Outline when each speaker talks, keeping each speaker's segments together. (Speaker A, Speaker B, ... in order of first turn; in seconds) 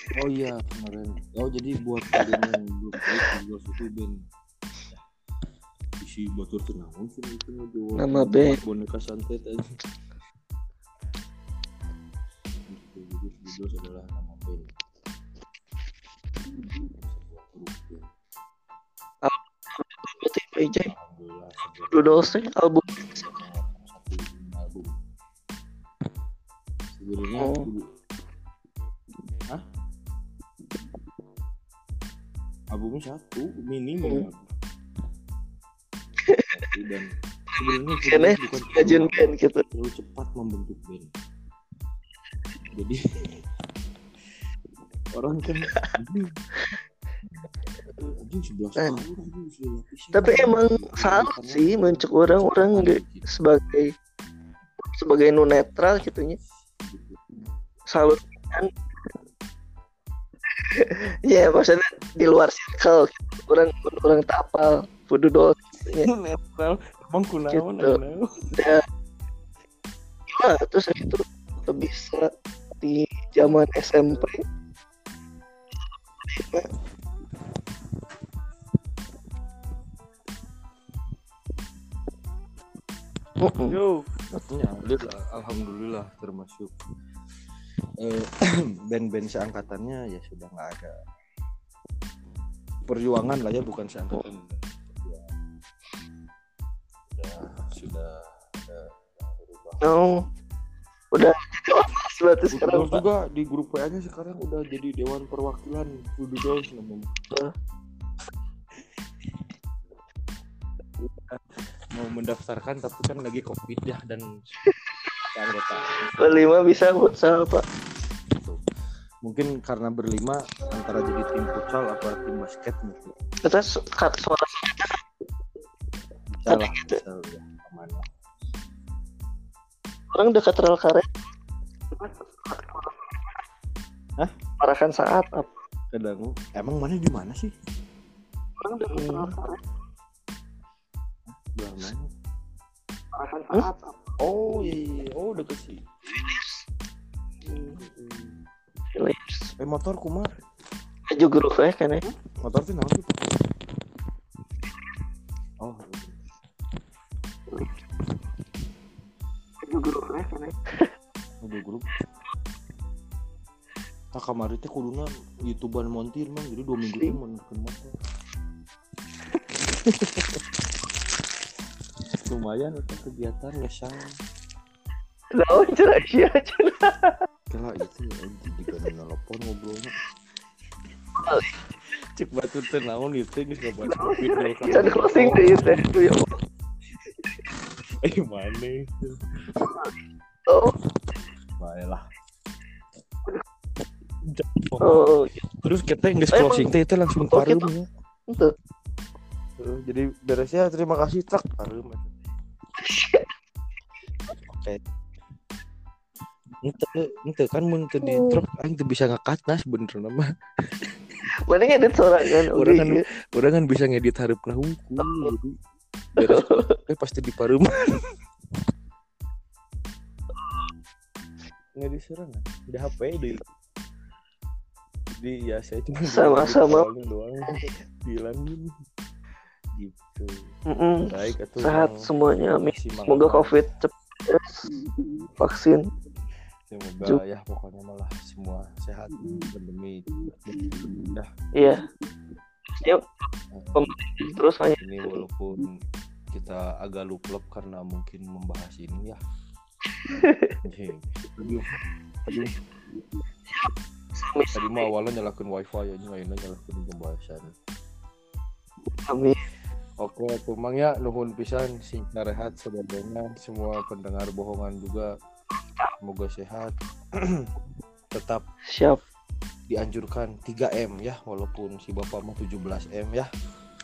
Speaker A: 0.1-4.2, 6.0-9.7, 12.7-14.7, 16.6-18.0, 20.9-22.4, 23.2-24.9, 26.9-27.9, 32.7-34.5, 36.5-41.1, 42.7-43.4, 45.1-46.4, 48.1-53.3, 56.5-57.2, 66.0-68.3, 83.6-86.7, 88.0-90.9, 92.9-95.3, 97.1-99.9, 102.5-107.1, 111.0-114.3, 115.3-116.7, 119.2-123.1, 126.3-128.1, 135.9-137.5, 141.3-142.1, 144.2-146.4, 147.6-148.4, 149.6-150.3, 152.4-153.3, 155.6-156.2, 161.4-161.9, 164.1-167.9, 172.1-174.1, 177.5-179.9, 182.1-186.0, 188.0-189.3, 191.6-192.1, 194.3-195.1, 195.6-197.9, 199.6-202.3, 204.5-204.8, 206.6-210.3, 212.5-215.5, 216.2-218.1, 221.8-223.4, 225.2-228.7, 229.7-230.5, 231.1-233.6, 234.8-235.3, 236.7-241.3, 243.5-245.7, 246.3-249.2, 250.6-251.7, 252.3-253.2, 254.6-257.5, 260.0-265.1, 266.0-267.5, 268.1-268.4, 269.7-273.3
Speaker B: 2.1-2.5, 3.0-3.3, 8.0-8.6, 19.2-20.9, 21.9-23.3, 27.4-27.7, 37.5-39.6, 50.1-53.9, 54.8-56.4, 57.9-58.7, 60.7-66.1, 67.5-68.0, 68.5-68.8, 70.3-72.3, 72.8-74.4, 76.2-76.7, 83.4-83.8, 99.8-100.1, 101.1-103.0, 114.6-115.2, 116.1-117.6, 123.4-125.0, 126.5-127.0, 130.1-131.1, 131.9-133.4, 134.6-135.6, 138.7-139.6, 143.2-143.9, 146.1-146.6, 147.5-147.8, 148.9-149.5, 151.1-152.0, 159.6-160.9, 175.3-177.2, 181.2-181.5, 183.8-186.3, 190.5-190.7, 194.8-195.4, 196.3-196.7, 197.3-197.7, 202.8-203.3, 208.0-208.4, 211.4-213.0, 215.0-215.3, 216.2-216.7, 220.4-220.7, 226.1-226.9, 230.7-234.6, 235.4-235.8, 241.6-241.8, 242.7-243.0, 243.7-245.2, 250.1-250.6, 253.5-254.9, 258.9-259.4, 265.6-265.9, 268.7-269.0